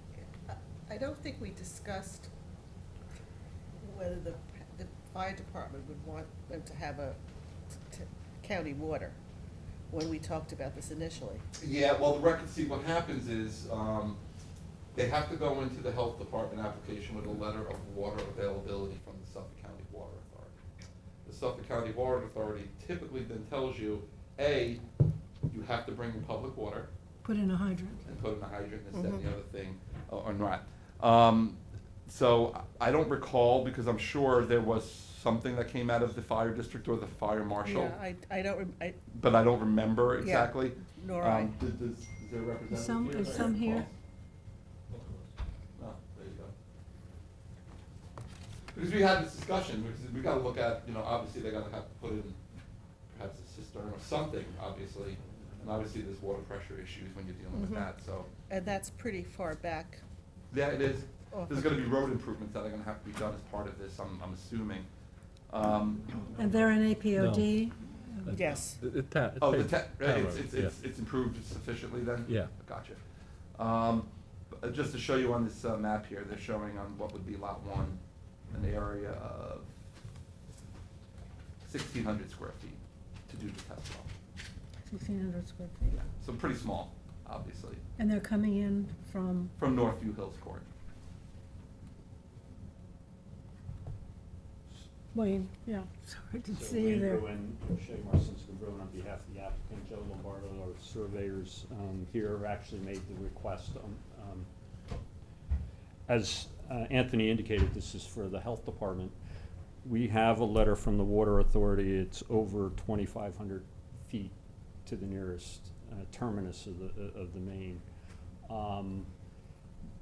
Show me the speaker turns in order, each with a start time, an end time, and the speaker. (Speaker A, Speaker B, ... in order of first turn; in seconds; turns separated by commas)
Speaker A: 0.5-2.3, Speaker A: 3.8-7.2, Speaker A: 7.8-9.2, Speaker A: 9.9-11.4, Speaker B: 11.6-14.2, Speaker B: 14.9-20.6, Speaker B: 21.2-24.8, Speaker B: 25.5-26.9, Speaker C: 27.2-28.0, Speaker B: 28.1-38.0, Speaker A: 28.9-29.2, Speaker A: 37.6-39.0, Speaker B: 39.1-43.9, Speaker A: 40.2-41.5, Speaker C: 42.7-43.9, Speaker D: 44.9-45.2, Speaker B: 45.8-46.5, Speaker B: 48.7-52.4, Speaker B: 53.1-58.3, Speaker A: 57.5-57.9, Speaker A: 58.5-60.0, Speaker B: 60.5-64.9, Speaker A: 61.3-61.7, Speaker B: 65.5-66.5, Speaker C: 66.4-68.4, Speaker D: 67.2-67.6, Speaker D: 68.2-70.7, Speaker A: 68.3-68.8, Speaker B: 69.4-73.0, Speaker B: 73.6-78.0, Speaker B: 78.5-79.7, Speaker B: 81.6-84.1, Speaker C: 84.9-85.9, Speaker B: 85.9-87.8, Speaker C: 88.0-89.5, Speaker B: 89.6-90.7, Speaker C: 95.1-97.2, Speaker E: 96.5-104.5, Speaker E: 106.1-109.2, Speaker E: 109.8-117.8, Speaker E: 118.5-119.1